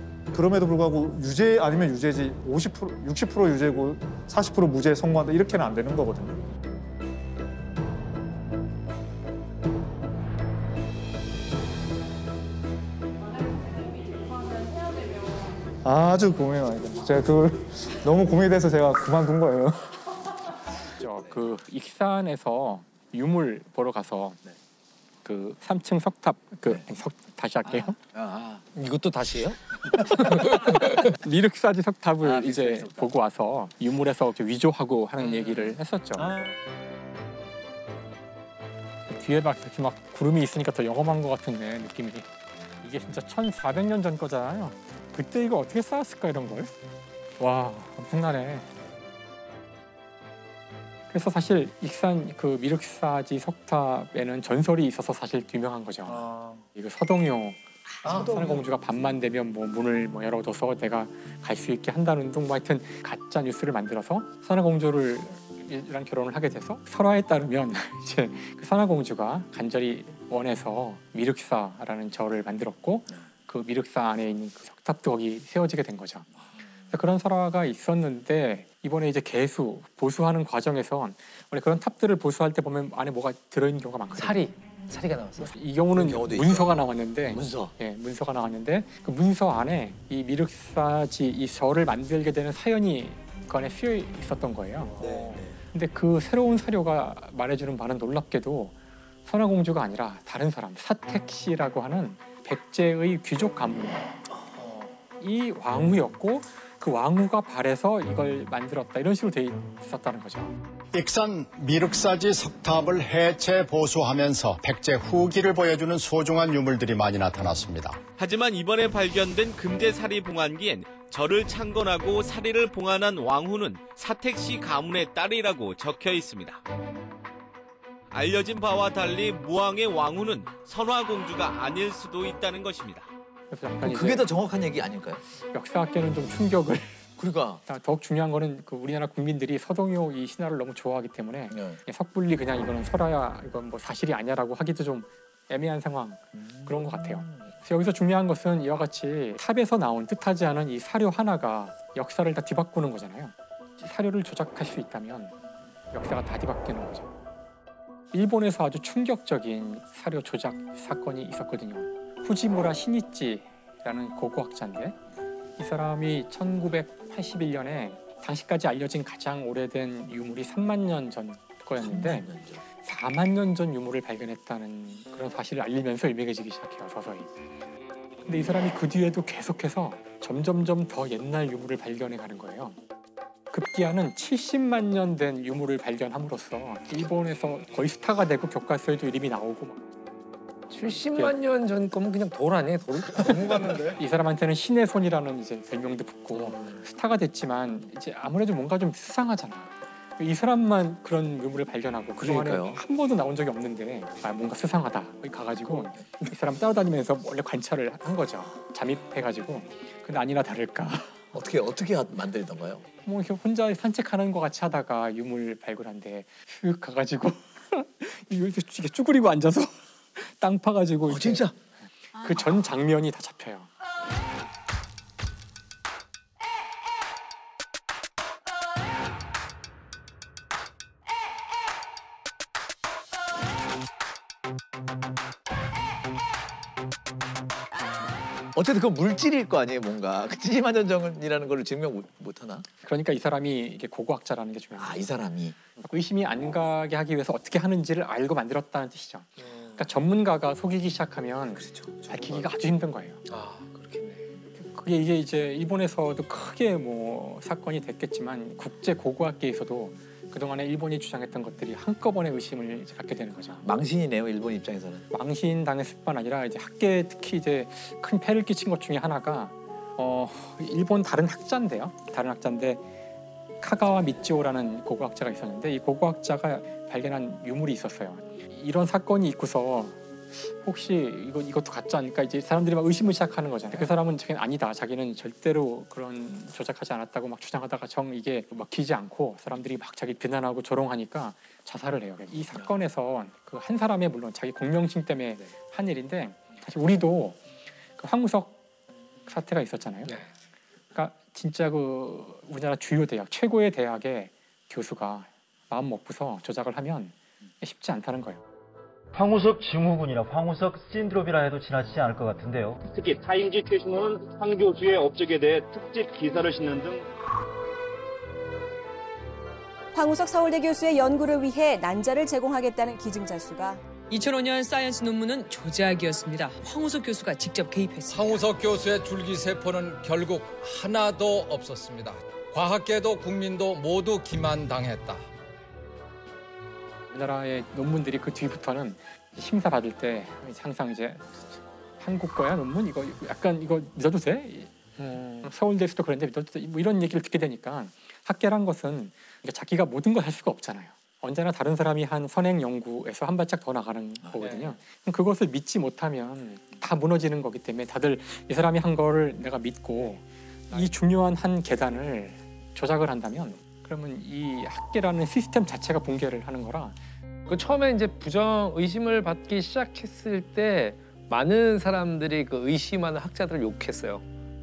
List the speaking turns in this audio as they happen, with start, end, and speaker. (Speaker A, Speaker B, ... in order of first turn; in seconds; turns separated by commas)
Speaker A: 0.3-6.4, Speaker A: 15.8-20.0, Speaker B: 21.0-24.4, Speaker C: 21.2-21.4, Speaker B: 25.2-28.0, Speaker C: 27.6-28.6, Speaker D: 28.7-29.6, Speaker B: 30.0-36.3, Speaker D: 30.1-30.6, Speaker C: 32.2-33.1, Speaker A: 36.2-36.5, Speaker B: 39.1-42.3, Speaker B: 42.8-46.7, Speaker B: 47.4-48.7, Speaker B: 51.1-76.3, Speaker A: 56.1-56.6, Speaker A: 58.0-58.5, Speaker D: 58.1-58.4, Speaker B: 76.9-84.5, Speaker D: 84.1-85.5, Speaker B: 85.4-104.1, Speaker C: 85.9-87.7, Speaker C: 95.0-95.6, Speaker B: 105.2-110.5, Speaker E: 110.9-118.0, Speaker F: 118.2-126.6, Speaker F: 128.1-133.1, Speaker B: 133.5-134.4, Speaker C: 133.8-135.2, Speaker B: 135.4-137.0, Speaker C: 137.2-137.6, Speaker B: 137.7-155.3, Speaker C: 141.5-141.8, Speaker C: 146.3-147.5, Speaker B: 155.9-157.1, Speaker B: 158.1-165.0, Speaker B: 165.6-172.3, Speaker C: 171.8-172.6, Speaker B: 172.8-177.3, Speaker B: 178.2-182.8, Speaker B: 183.5-189.8, Speaker D: 190.7-193.8, Speaker B: 190.8-191.4, Speaker A: 193.1-194.0, Speaker B: 194.0-211.2, Speaker C: 202.2-202.8, Speaker C: 211.3-212.8, Speaker B: 213.0-221.5, Speaker C: 221.1-221.5, Speaker B: 222.2-223.7, Speaker C: 238.5-242.6, Speaker B: 242.8-245.1, Speaker C: 244.8-245.6, Speaker B: 245.8-253.2, Speaker D: 249.4-249.8, Speaker D: 253.3-254.2, Speaker B: 254.6-263.6, Speaker C: 263.6-265.0, Speaker B: 265.1-272.8, Speaker B: 273.6-297.4, Speaker B: 298.0-298.6, Speaker B: 299.2-300.2, Speaker B: 300.9-308.4, Speaker G: 309.1-312.8, Speaker H: 312.9-317.1, Speaker I: 319.9-323.8, Speaker J: 324.1-328.5, Speaker K: 328.0-335.2, Speaker B: 337.1-341.4, Speaker B: 342.0-344.7, Speaker D: 345.0-345.5, Speaker B: 345.4-367.0, Speaker D: 367.5-374.2